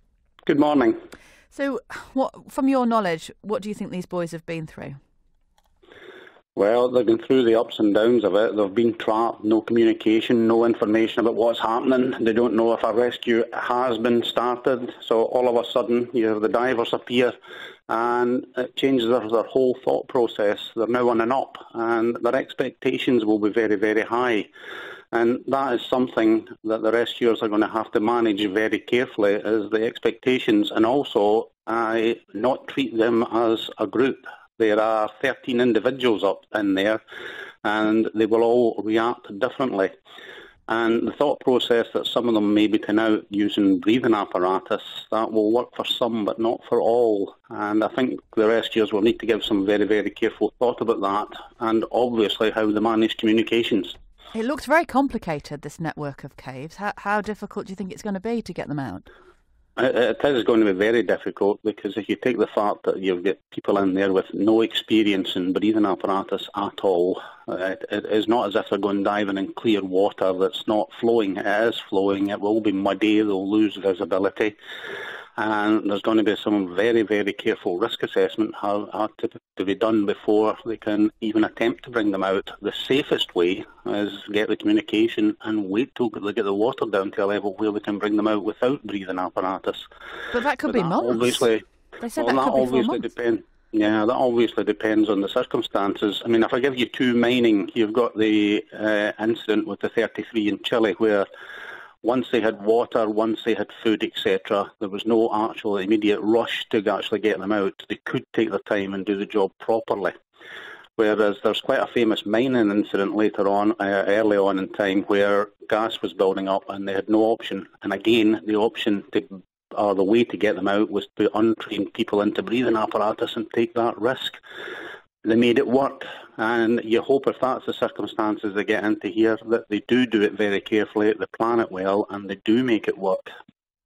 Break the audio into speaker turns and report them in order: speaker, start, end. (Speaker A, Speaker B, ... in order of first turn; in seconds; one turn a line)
Speaker A: 0.5-1.0
Speaker B: 1.5-5.0
Speaker A: 6.5-17.3
Speaker A: 17.9-24.5
Speaker A: 25.1-37.0
Speaker A: 37.6-40.0
Speaker A: 40.7-54.0
Speaker B: 54.3-59.0
Speaker A: 59.8-74.5
Speaker A: 75.4-89.9
Speaker B: 90.3-91.5
Speaker A: 90.7-101.3
Speaker B: 92.0-93.1
Speaker A: 102.0-110.1
Speaker A: 111.0-124.4
Speaker A: 125.2-133.3